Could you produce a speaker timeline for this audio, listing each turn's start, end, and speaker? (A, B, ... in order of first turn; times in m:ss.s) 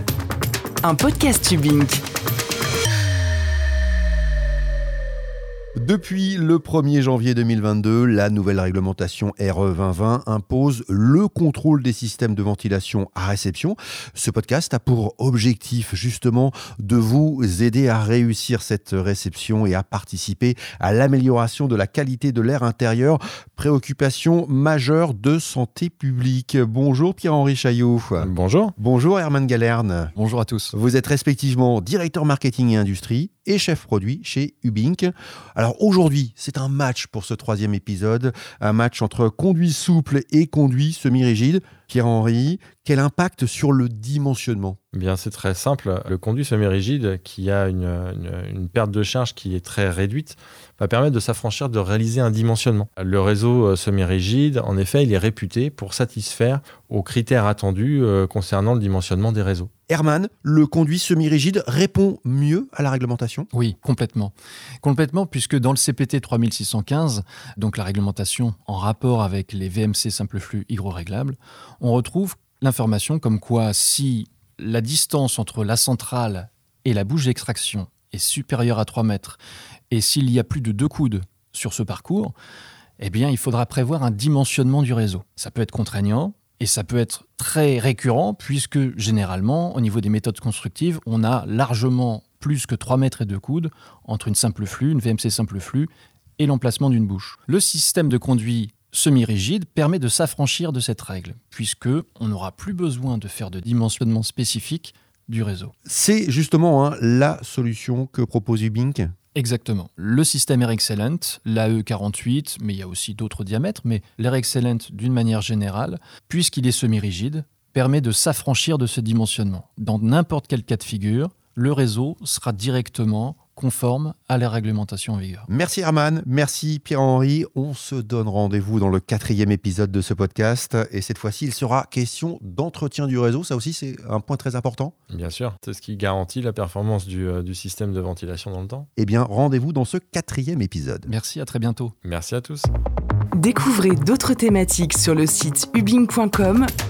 0:00.8-0:02.0 A
0:05.8-0:30.1 B
0:28.2-0:28.7 C
0:30.2-0:30.7 D
0:30.7-0:44.8 B
0:44.9-0:59.7 C
0:59.9-1:03.5 B
1:03.5-1:19.4 D
1:19.9-1:22.3 D
1:23.0-1:45.7 D
1:45.8-1:49.1 B
1:49.3-2:05.5 D
2:05.5-2:14.9 B
2:15.1-2:18.9 C
2:19.0-2:21.1 B
2:21.1-2:21.9 D
2:22.0-2:22.7 C
2:23.3-2:26.7 A